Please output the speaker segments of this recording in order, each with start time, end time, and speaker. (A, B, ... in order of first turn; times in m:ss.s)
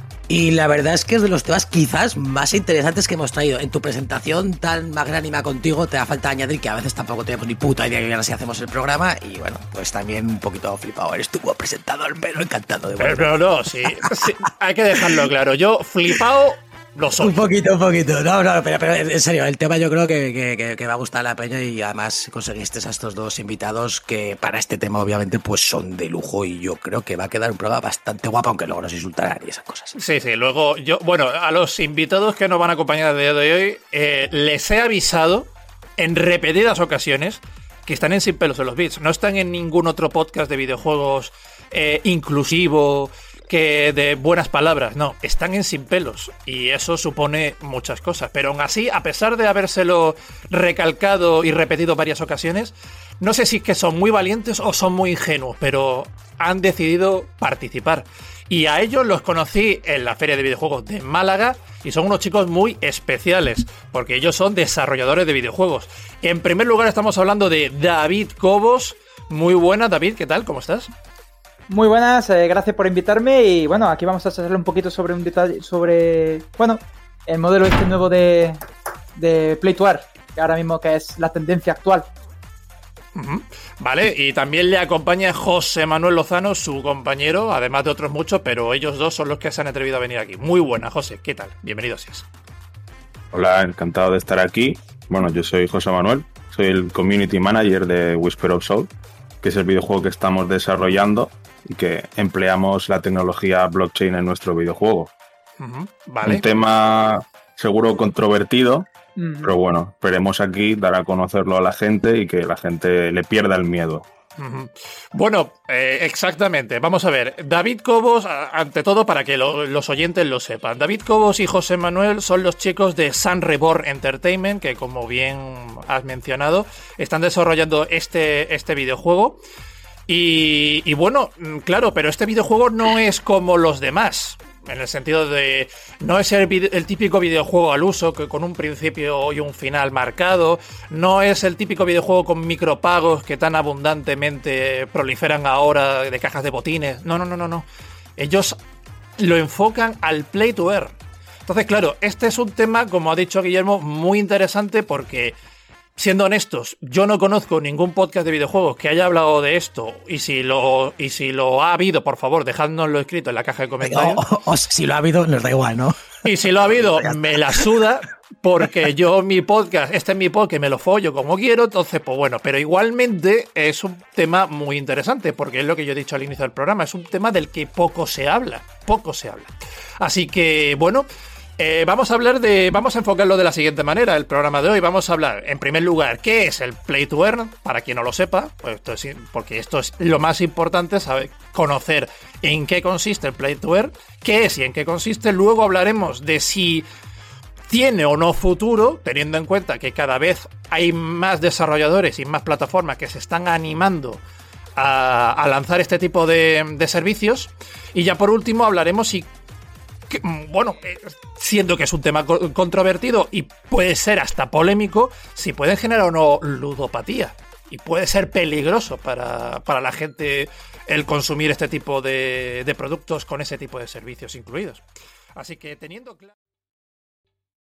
0:00.3-0:13.3 A
0:12.9-0:17.5 B
0:17.2-0:29.9 A
0:29.9-1:10.9 B
1:11.7-1:18.6 C
1:19.2-1:22.1 C
1:23.1-1:32.2 B
1:33.3-1:38.9 D
1:39.4-1:45.1 D
1:45.6-1:46.4 B
1:46.2-1:48.9 D
1:49.2-1:49.5 C
1:49.4-1:54.0 D
1:54.4-2:09.4 B
2:10.1-2:27.6 B
2:28.2-2:28.6 B
2:29.2-2:35.4 B
2:36.0-2:44.2 B
2:43.8-2:47.6 A
2:46.2-3:01.1 B
3:01.6-3:16.8 B
3:17.7-3:24.2 B
3:24.8-3:29.3 B
3:30.1-3:44.8 B
3:45.4-3:46.3 B